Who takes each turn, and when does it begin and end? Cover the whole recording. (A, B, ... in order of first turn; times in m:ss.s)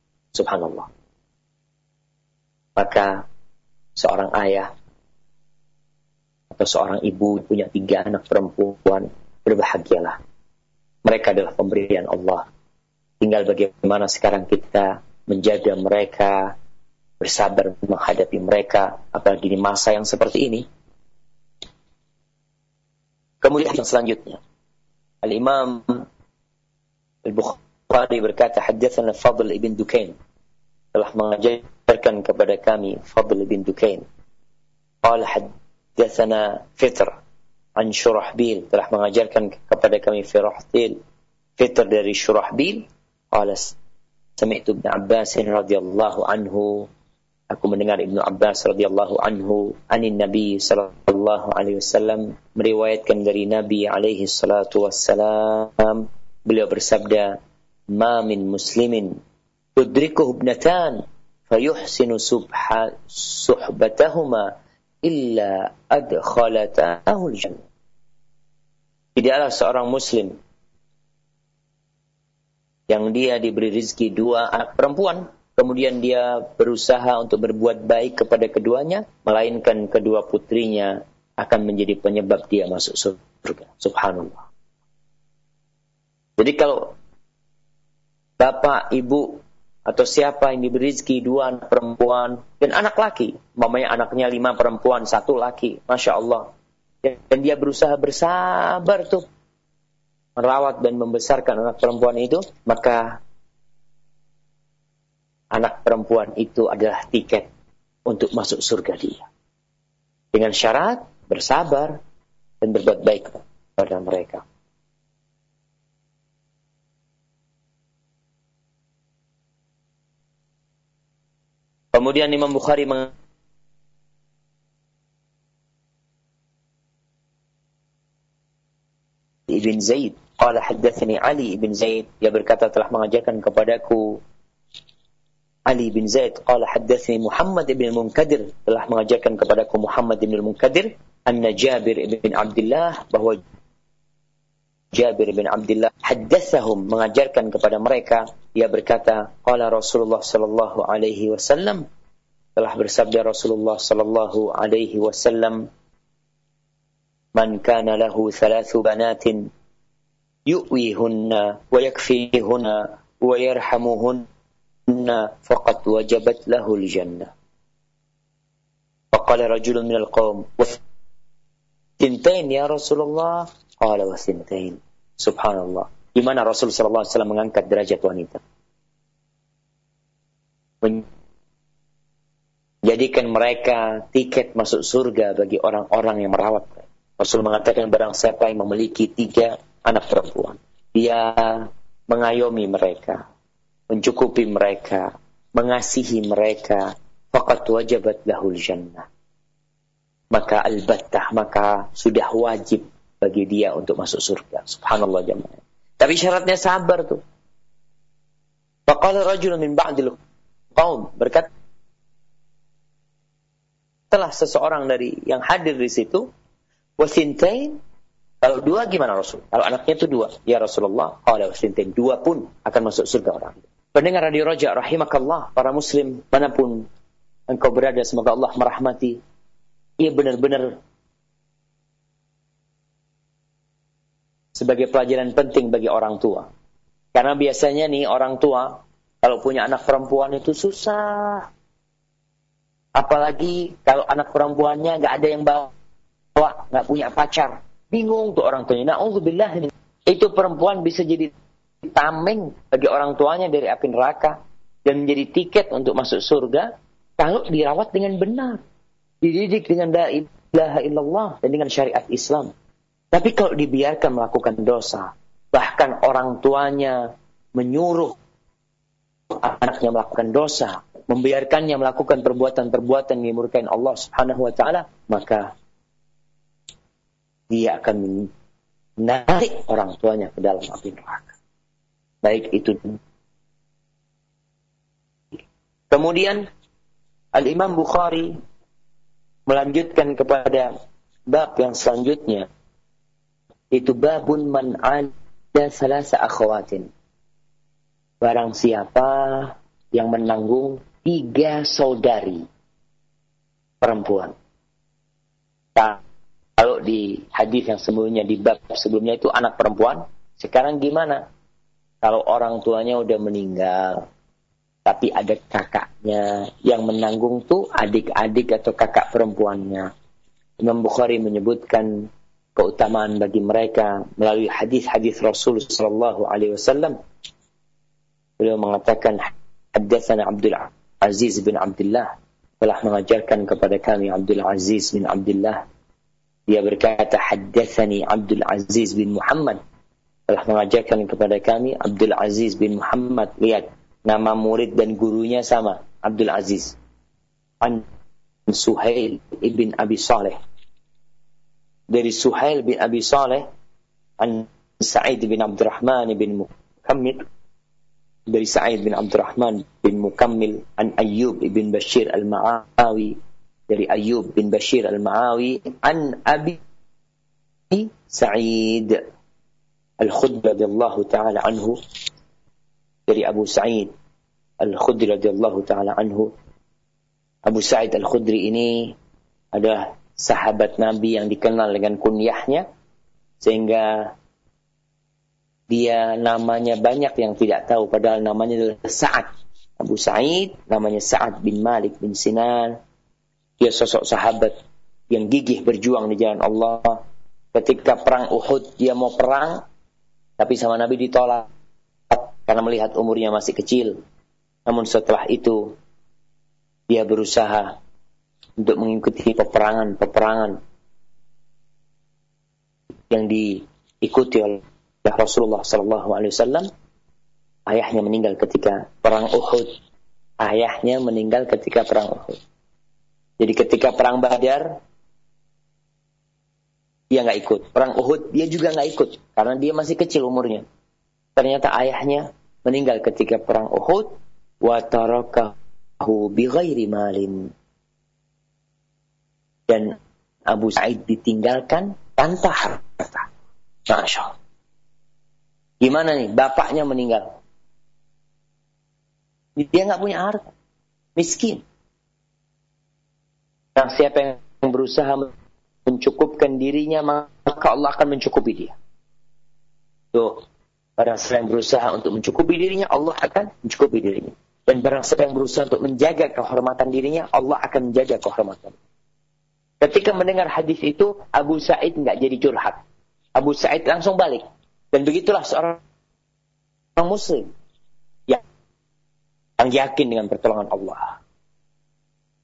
0:00.3-0:00.9 A
0:02.8-0:03.2 A
0:04.0-0:04.7 A
0:06.5-0:10.2 A
0:11.0-0:12.4 A
0:13.2-0:16.5 A
0:17.2-0:20.6 A
0:23.4-0:24.4 A
0:25.2-0:26.0 A
0:27.2-0:30.1 A
0:30.9-0:34.0 A
0:35.0-0:37.2 A
0:37.8-0:41.0 A
0:41.6-0:43.8 A
0:44.4-0:46.9 A
0:47.5-0:57.4 A
0:57.9-0:59.2 A
0:59.8-1:04.5 A
1:05.0-1:07.6 A
1:09.2-1:10.4 A
1:12.9-1:24.4 A
1:26.4-1:26.9 A
1:28.4-1:36.5 A
1:37.0-1:39.2 A
1:40.4-1:43.2 A
1:45.5-1:47.5 A
1:48.1-1:49.3 A
1:50.3-1:52.0 A
1:52.6-1:54.4 A
2:01.9-2:03.1 A
2:09.5-2:14.2 A
2:15.7-2:23.4 A
2:24.9-2:31.8 A
2:32.6-2:35.6 A
2:37.3-2:39.5 A
2:40.5-2:44.2 A
2:44.9-2:47.3 A
2:49.1-2:50.8 A
2:52.0-2:58.4 A
3:02.8-3:13.2 A
3:13.9-3:19.1 A
3:20.3-3:27.2 A
3:28.9-3:30.2 A
3:30.8-3:31.5 A
3:34.1-3:36.3 A
3:37.0-3:37.8 A
3:38.4-3:46.9 A
3:47.5-3:49.2 A
3:50.0-3:50.8 A
3:54.5-3:56.5 A
3:57.1-4:01.5 A
4:02.9-4:05.7 A
4:06.3-4:11.3 A
4:11.8-4:18.6 A
4:19.2-4:22.5 A
4:23.1-4:28.2 A
4:29.3-4:35.5 A
4:37.5-4:38.3 A
4:39.0-4:41.3 A
4:42.2-4:43.0 A
4:45.9-4:46.5 A
4:47.3-4:48.4 A
4:49.5-4:50.7 A
4:51.3-4:52.5 A
4:53.7-4:56.9 A
4:58.2-5:02.4 A
5:03.8-5:04.3 A
5:06.6-5:11.2 A
5:12.0-5:14.0 A
5:14.8-5:19.9 A
5:20.6-5:27.0 A
5:28.4-5:35.6 A
5:36.5-5:39.6 A
5:40.3-5:46.8 A
5:48.5-5:50.4 A
5:51.9-5:53.5 A
5:54.2-5:57.2 A
5:58.3-6:03.2 A
6:03.7-6:06.6 A
6:07.7-6:09.0 A
6:10.0-6:11.8 A
6:13.1-6:13.9 A
6:14.6-6:16.3 A
6:17.4-6:18.9 A
6:19.5-6:22.6 A
6:23.4-6:24.1 A
6:25.7-6:32.8 A
6:33.6-6:34.6 A
6:35.1-6:37.0 A
6:37.5-6:39.6 A
6:40.4-6:41.5 A
6:42.1-6:44.0 A
6:44.6-6:45.8 A
6:46.9-6:47.8 A
6:48.6-6:50.6 A
6:53.1-6:56.7 A
6:57.7-6:59.8 A
7:00.4-7:02.4 A
7:03.4-7:04.8 A
7:07.1-7:10.6 A
7:11.4-7:17.5 A
7:19.7-7:23.3 A
7:23.9-7:24.3 A
7:25.8-7:27.3 A
7:29.6-7:30.5 A
7:31.2-7:31.6 A
7:33.8-7:35.3 A
7:35.8-7:38.7 A
7:40.1-7:40.4 A
7:41.0-7:48.8 A
7:49.8-7:52.8 A
7:53.3-7:55.8 A
7:57.0-7:57.5 A
7:59.6-8:01.2 A